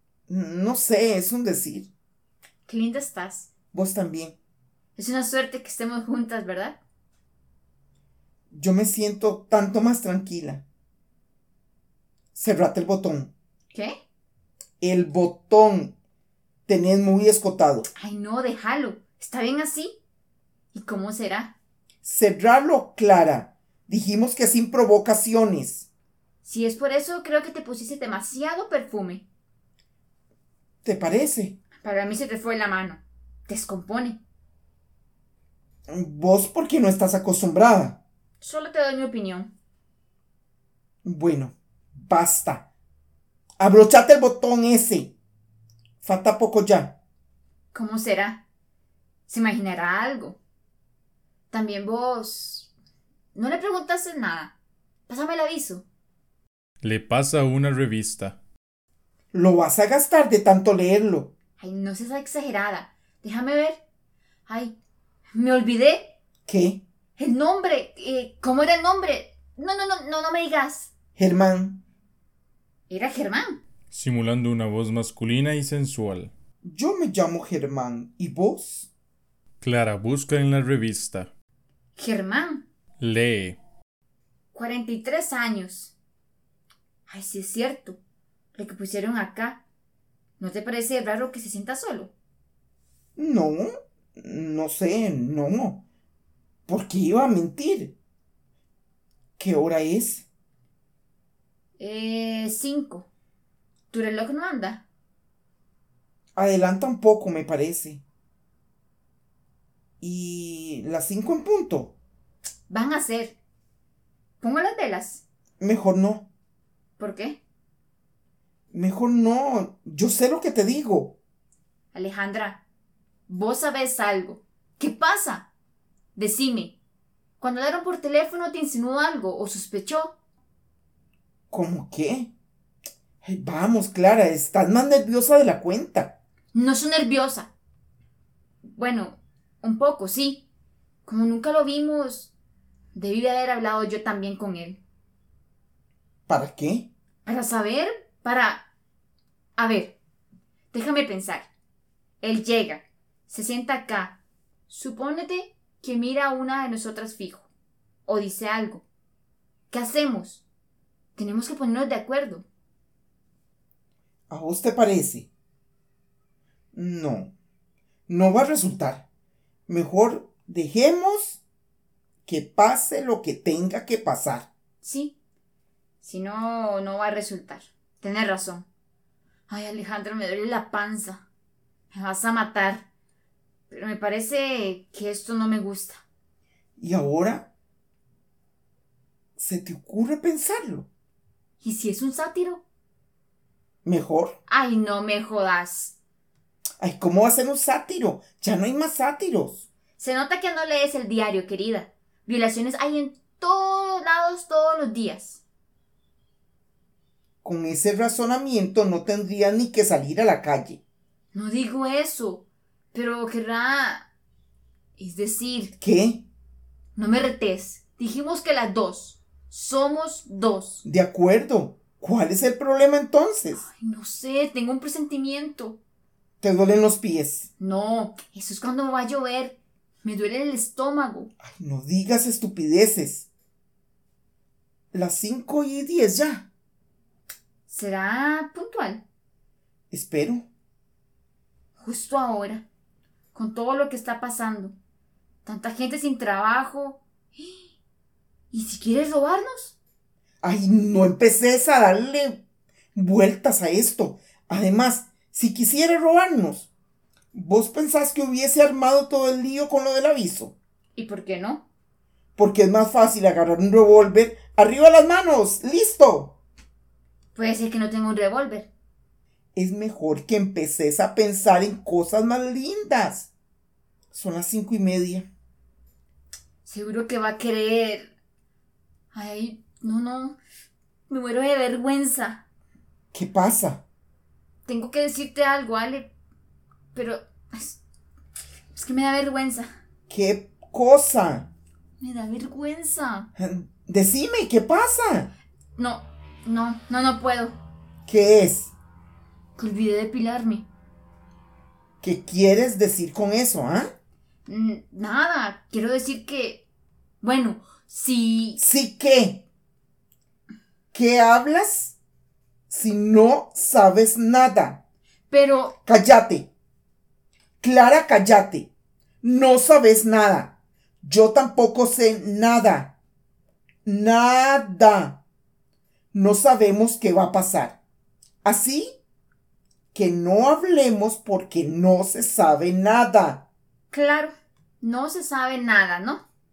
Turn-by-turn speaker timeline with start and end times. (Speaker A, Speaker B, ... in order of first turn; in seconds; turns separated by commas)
Speaker A: 0.3-1.9, Speaker B: 2.7-3.5, Speaker A: 3.7-4.4, Speaker B: 5.0-6.8, Speaker A: 8.5-10.7, Speaker A: 12.3-13.3, Speaker A: 14.8-15.9, Speaker A: 16.7-17.9, Speaker B: 18.0-20.0, Speaker B: 20.7-21.6, Speaker A: 22.0-25.9, Speaker B: 26.4-29.2, Speaker A: 30.8-31.6, Speaker B: 31.8-34.2, Speaker A: 35.9-38.0, Speaker B: 38.4-39.5, Speaker A: 41.0-42.7, Speaker A: 43.6-45.1, Speaker A: 46.0-47.0, Speaker B: 47.7-48.4, Speaker B: 49.3-50.4, Speaker B: 51.5-52.7, Speaker B: 53.3-54.5, Speaker B: 55.1-55.9, Speaker C: 56.8-58.4, Speaker A: 59.3-61.3, Speaker B: 61.6-63.8, Speaker B: 64.5-64.8, Speaker B: 65.3-66.2, Speaker A: 66.5-66.8, Speaker B: 67.2-70.9, Speaker A: 71.2-71.8, Speaker B: 72.9-73.6, Speaker C: 73.9-76.3, Speaker A: 76.6-78.9, Speaker C: 79.6-81.3, Speaker B: 82.0-82.7, Speaker C: 83.0-83.6, Speaker B: 84.5-85.9, Speaker B: 87.1-88.0, Speaker B: 88.5-89.6, Speaker B: 90.4-92.1, Speaker A: 93.2-95.8, Speaker A: 96.7-98.0, Speaker A: 99.4-100.3, Speaker B: 101.8-103.1, Speaker B: 103.9-104.8, Speaker A: 106.4-108.0, Speaker A: 110.0-111.9, Speaker B: 112.7-113.4, Speaker B: 114.4-115.2, Speaker A: 115.6-116.3, Speaker B: 117.0-117.4, Speaker A: 118.7-121.2, Speaker B: 121.9-122.6, Speaker B: 123.3-125.5, Speaker B: 126.2-126.8, Speaker B: 127.4-130.2, Speaker A: 131.5-132.3, Speaker A: 133.2-136.2, Speaker B: 136.5-137.5, Speaker B: 138.7-140.5, Speaker B: 141.1-142.3, Speaker B: 142.9-144.8, Speaker A: 146.3-146.9, Speaker B: 147.2-148.7, Speaker B: 149.6-150.0, Speaker B: 150.7-151.5, Speaker B: 152.2-157.5, Speaker B: 158.1-158.9, Speaker B: 159.7-160.4, Speaker B: 161.2-162.5, Speaker A: 164.3-165.3, Speaker A: 166.7-167.3, Speaker A: 168.1-169.1, Speaker A: 169.7-171.4, Speaker A: 172.3-174.5, Speaker B: 174.8-175.2, Speaker B: 176.0-178.7, Speaker B: 179.5-181.2, Speaker B: 181.9-182.9, Speaker B: 183.7-186.0, Speaker A: 186.8-187.5, Speaker A: 189.4-190.9, Speaker B: 191.6-192.6, Speaker A: 193.8-194.4, Speaker B: 194.5-196.0, Speaker A: 196.8-199.7, Speaker B: 200.0-205.4, Speaker A: 207.4-210.8, Speaker B: 211.3-214.1, Speaker B: 215.0-215.7, Speaker A: 215.8-216.3, Speaker B: 216.9-220.8, Speaker A: 220.8-223.7, Speaker B: 223.6-225.8, Speaker A: 226.4-227.5, Speaker B: 227.6-231.3, Speaker A: 231.4-233.3, Speaker A: 234.9-236.5, Speaker B: 237.7-239.0, Speaker A: 239.9-240.5, Speaker B: 241.8-242.7, Speaker B: 243.3-244.8, Speaker B: 245.4-247.7, Speaker B: 248.5-249.8, Speaker A: 250.4-252.4, Speaker A: 252.9-256.7, Speaker A: 257.3-260.6, Speaker B: 260.9-261.7, Speaker A: 262.4-266.4, Speaker B: 267.3-268.7, Speaker A: 269.6-273.3, Speaker A: 274.1-275.3, Speaker B: 276.6-278.1, Speaker B: 279.1-280.4, Speaker B: 281.1-282.4, Speaker A: 283.1-283.8, Speaker B: 284.7-286.1, Speaker B: 286.9-287.8, Speaker B: 288.7-289.7, Speaker A: 290.1-291.5, Speaker B: 292.0-293.3, Speaker A: 293.4-295.3, Speaker B: 295.8-297.6, Speaker A: 298.1-298.7, Speaker B: 299.6-300.7, Speaker A: 302.0-303.9, Speaker B: 304.5-306.7, Speaker B: 307.2-308.6, Speaker A: 308.6-309.4, Speaker A: 310.9-312.0, Speaker A: 312.7-314.8, Speaker B: 315.3-315.8, Speaker A: 315.9-316.5, Speaker A: 317.6-318.7, Speaker A: 319.2-322.9, Speaker A: 323.9-325.2, Speaker A: 326.1-327.8, Speaker A: 328.4-328.9, Speaker A: 329.9-333.4, Speaker B: 333.9-336.3